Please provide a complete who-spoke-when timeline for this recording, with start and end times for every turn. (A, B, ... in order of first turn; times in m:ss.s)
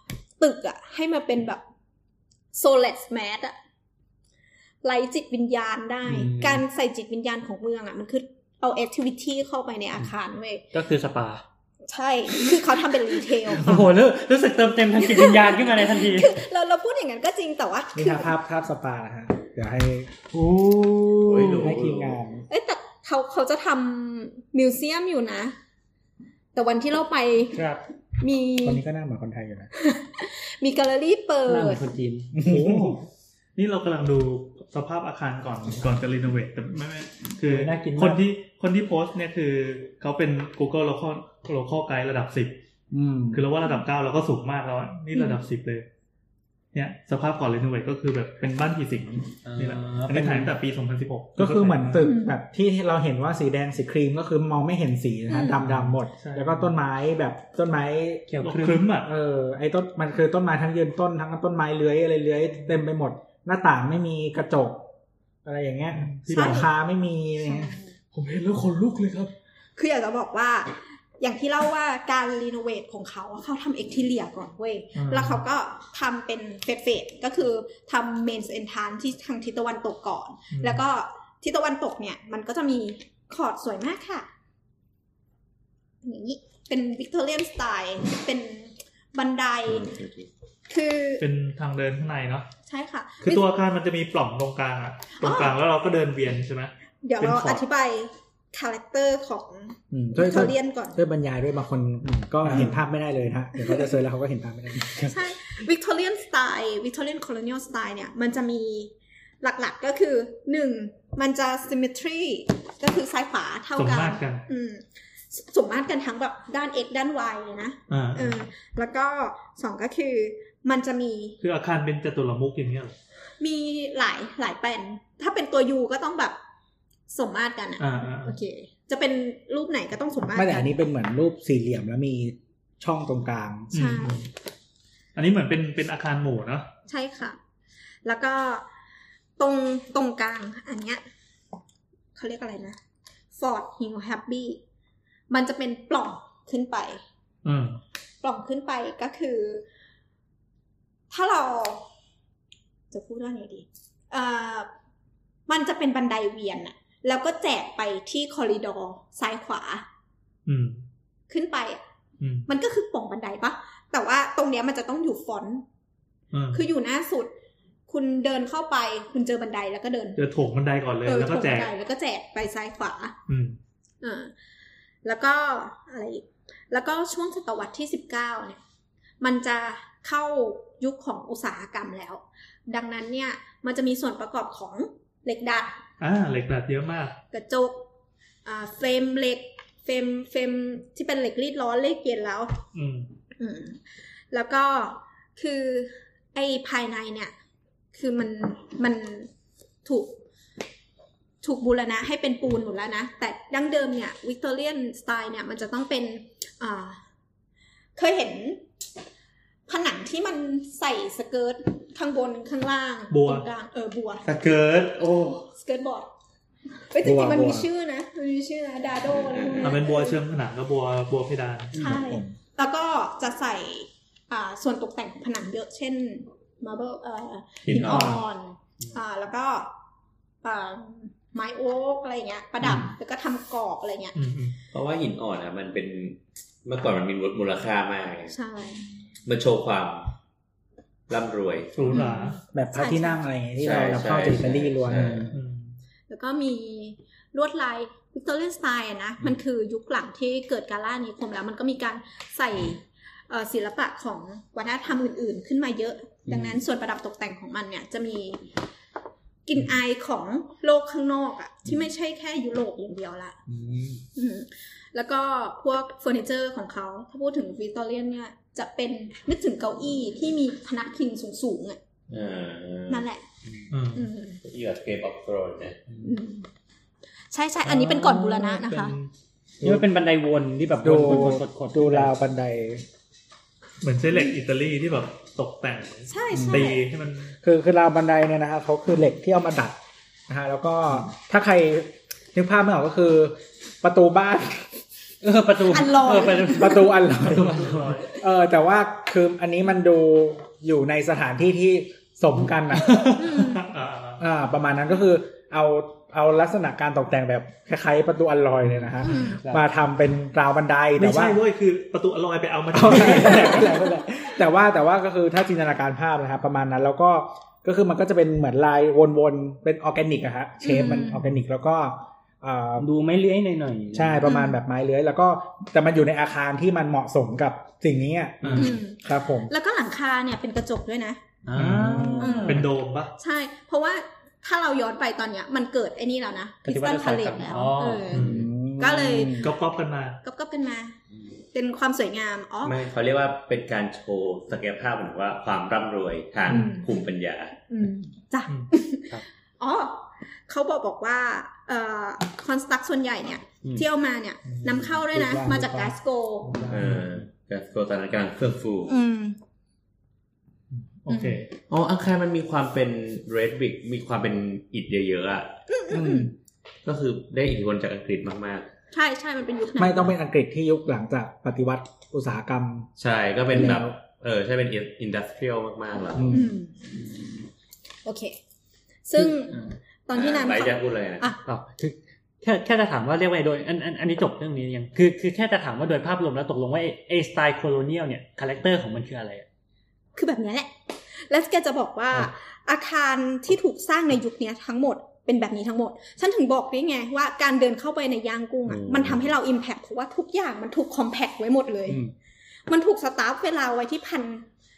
0:00.4-0:01.6 A
0:02.5-0:03.5 A
0:04.8-0:10.6 A
0:06.0-0:06.6 B
0:10.7-0:11.4 B
0:11.9-0:13.7 A
0:13.3-0:16.4 B
0:15.0-0:18.3 A
0:17.9-0:20.1 C
0:20.3-0:21.7 B
0:21.2-0:22.2 D
0:21.6-0:22.4 C
0:22.5-0:25.6 A
0:26.5-0:27.6 A
0:27.5-0:27.8 B
0:28.2-0:28.8 A
0:28.6-0:29.7 C
0:29.8-0:31.8 A
0:31.5-0:32.3 B
0:32.3-0:33.0 C
0:32.4-0:42.6 E
0:37.4-0:38.2 B
0:42.9-0:43.4 C
0:43.3-0:45.9 E
0:45.1-0:45.4 A
0:46.7-0:52.0 E
0:49.4-0:50.5 B
0:51.4-0:58.3 C
0:52.0-0:52.3 A
0:55.3-0:55.6 A
0:55.6-0:55.9 B
0:56.1-0:56.7 E
0:58.3-0:58.9 B
0:58.4-0:59.1 E
0:59.0-1:04.9 C
1:05.4-1:07.7 C
1:05.9-1:06.7 E
1:06.3-1:06.6 A
1:07.4-1:07.9 A
1:08.1-1:09.3 E
1:09.8-1:24.3 A
1:15.0-1:15.4 E
1:20.5-1:20.8 E
1:26.0-1:30.0 A
1:29.7-1:30.3 D
1:30.7-1:31.2 A
1:31.2-1:32.5 E
1:32.7-1:33.5 A
1:33.2-1:37.6 E
1:35.2-1:35.6 A
1:37.0-1:41.0 A
1:39.9-1:45.3 C
1:43.6-1:43.8 A
1:45.0-2:01.4 A
1:53.8-1:54.4 E
1:57.9-1:58.4 E
2:01.4-2:03.0 E
2:03.4-2:06.4 A
2:07.1-2:10.8 A
2:07.8-2:08.3 E
2:10.3-2:13.7 C
2:13.7-2:14.3 E
2:13.7-2:14.2 A
2:15.1-2:16.7 E
2:16.9-2:17.4 A
2:18.0-2:18.6 A
2:19.4-2:21.0 A
2:22.1-2:22.8 A
2:23.3-2:24.6 A
2:25.3-2:27.0 A
2:27.4-2:27.8 E
2:28.2-2:29.6 A
2:31.1-2:31.8 A
2:32.9-2:34.7 A
2:35.5-2:39.8 A
2:40.4-2:40.8 E
2:41.3-2:41.8 A
2:42.2-2:42.5 E
2:42.5-2:45.6 A
2:46.3-2:46.6 E
2:46.5-2:47.3 A
2:47.9-2:50.2 A
2:50.2-2:51.7 E
2:51.0-2:53.2 A
2:53.3-2:53.6 E
2:54.0-2:54.3 A
2:55.0-2:58.6 A
2:59.2-3:05.8 A
3:06.0-3:07.2 E
3:07.3-3:07.8 A
3:08.4-3:12.6 A
3:12.7-3:13.1 E
3:13.4-3:13.8 A
3:14.3-3:17.3 A
3:17.9-3:19.3 A
3:19.8-3:20.2 A
3:21.4-3:27.0 A
3:28.0-3:28.6 A
3:29.7-3:34.2 A
3:33.1-3:33.4 E
3:34.2-3:35.5 D
3:35.6-3:36.1 A
3:36.9-3:40.2 A
3:37.0-3:37.7 C
3:39.2-3:39.7 D
3:39.6-3:41.7 E
3:41.7-3:42.3 C
3:41.7-3:49.7 A
3:47.7-3:48.2 D
3:47.7-3:48.2 E
3:50.4-3:54.1 A
3:54.1-3:54.6 E
3:54.7-3:58.4 D
3:58.3-3:58.9 A
3:59.2-4:00.1 D
4:01.1-4:02.0 D
4:01.7-4:02.4 E
4:01.9-4:03.2 A
4:02.5-4:05.4 C
4:03.6-4:05.3 D
4:05.3-4:05.8 E
4:06.1-4:18.4 A
4:16.3-4:16.6 B
4:19.4-4:23.4 A
4:23.5-4:24.0 C
4:24.2-4:31.8 A
4:32.1-4:33.0 D
4:32.9-4:33.2 A
4:33.7-4:34.1 E
4:33.9-4:34.4 A
4:34.4-4:35.8 D
4:36.0-4:36.5 A
4:37.3-4:39.0 A
4:37.7-4:38.9 B
4:38.7-4:39.1 E
4:39.6-4:42.1 B
4:40.8-4:42.8 C
4:43.8-4:47.3 E
4:46.1-4:46.8 A
4:46.3-4:46.7 C
4:47.4-4:54.8 C
4:55.2-4:58.0 B
4:55.7-4:56.9 A
4:56.4-5:03.0 C
4:57.2-4:58.1 E
5:02.9-5:03.2 B
5:03.2-5:03.6 A
5:03.3-5:04.2 E
5:04.2-5:11.4 C
5:08.8-5:09.6 B
5:09.0-5:09.4 A
5:11.0-5:13.7 E
5:12.7-5:22.9 C
5:20.6-5:21.2 A
5:22.8-5:24.3 B
5:23.9-5:29.5 C
5:24.2-5:24.6 A
5:28.4-5:28.7 E
5:28.5-5:31.2 A
5:31.4-5:32.7 B
5:31.5-5:33.1 E
5:31.6-5:32.5 C
5:32.2-5:39.5 A
5:36.6-5:38.4 B
5:38.1-5:38.4 E
5:38.1-5:39.5 C
5:39.2-5:40.2 E
5:40.2-5:40.9 A
5:41.5-5:42.7 A
5:42.6-5:47.6 D
5:46.5-5:46.8 A
5:47.7-5:56.6 A
5:54.5-5:57.1 C
5:56.7-5:58.9 D
5:58.9-5:59.4 A
6:00.7-6:01.5 E
6:01.1-6:01.5 A
6:01.7-6:05.5 D
6:05.7-6:06.3 A
6:05.9-6:06.3 C
6:06.8-6:08.7 D
6:08.9-6:10.2 A
6:09.8-6:12.9 C
6:13.0-6:16.3 D
6:13.5-6:13.9 C
6:16.1-6:16.5 C
6:16.3-6:16.8 A
6:18.0-6:18.4 A
6:19.1-6:21.4 A
6:19.3-6:19.7 B
6:20.1-6:21.3 D
6:21.4-6:29.4 B
6:30.2-6:42.0 A
6:38.7-6:39.3 D
6:42.7-6:44.5 A